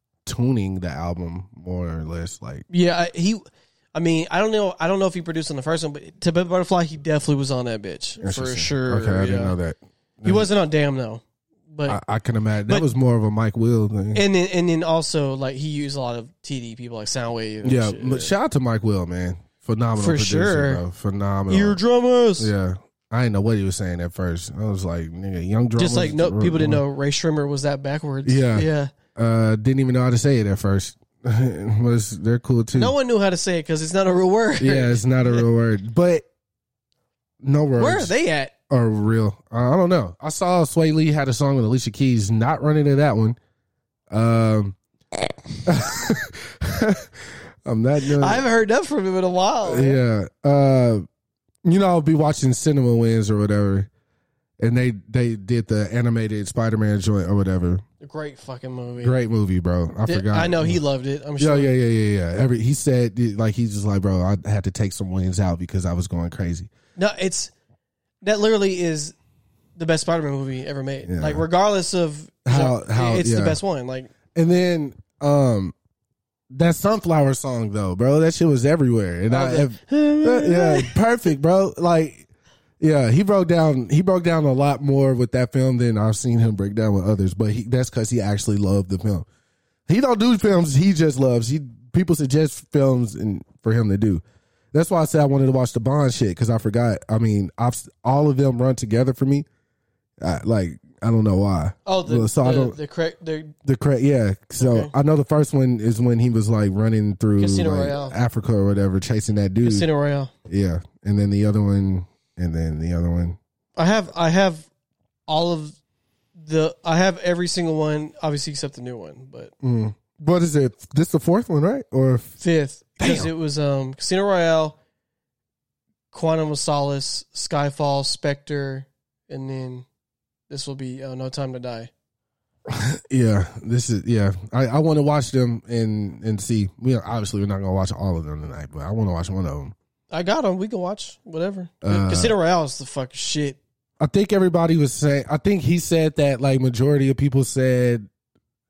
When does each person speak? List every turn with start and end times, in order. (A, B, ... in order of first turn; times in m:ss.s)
0:00.3-0:02.6 A
0:02.7-0:09.6 B
0:08.2-0:10.5 A
0:10.2-0:12.0 B
0:11.9-0:14.2 A
0:14.1-0:18.3 B
0:17.6-0:21.8 A
0:20.0-0:20.8 B
0:21.5-0:22.5 B
0:22.4-0:26.8 A
0:25.8-0:28.9 B
0:28.2-0:32.9 A
0:32.7-0:35.5 B
0:34.6-0:36.2 A
0:37.4-0:38.1 A
0:37.8-0:38.5 B
0:38.7-0:43.4 A
0:44.1-0:44.8 A
0:45.6-0:48.4 A
0:48.2-0:50.0 B
0:49.6-0:51.1 A
0:51.6-0:53.9 A
0:54.6-0:57.8 A
0:58.0-0:59.2 B
0:59.0-1:00.8 A
1:00.1-1:01.7 B
1:01.4-1:06.7 A
1:07.0-1:07.5 B
1:08.2-1:09.2 B
1:09.8-1:14.1 B
1:11.0-1:11.4 A
1:12.4-1:13.6 A
1:14.3-1:15.7 A
1:16.5-1:22.3 A
1:19.3-1:21.0 B
1:22.8-1:29.3 A
1:29.9-1:39.5 A
1:40.2-1:42.8 A
1:41.9-1:43.5 B
1:43.6-1:49.9 A
1:44.6-1:44.9 B
1:47.4-1:48.2 B
1:49.6-1:50.3 B
1:50.5-1:53.4 A
1:53.8-1:54.7 B
1:55.3-1:55.8 B
1:56.4-1:59.5 B
1:59.6-2:02.4 A
2:02.4-2:04.8 B
2:03.0-2:03.3 A
2:06.1-2:09.9 B
2:10.5-2:11.9 B
2:12.7-2:19.8 A
2:20.1-2:23.6 B
2:21.8-2:22.4 A
2:24.0-2:28.1 A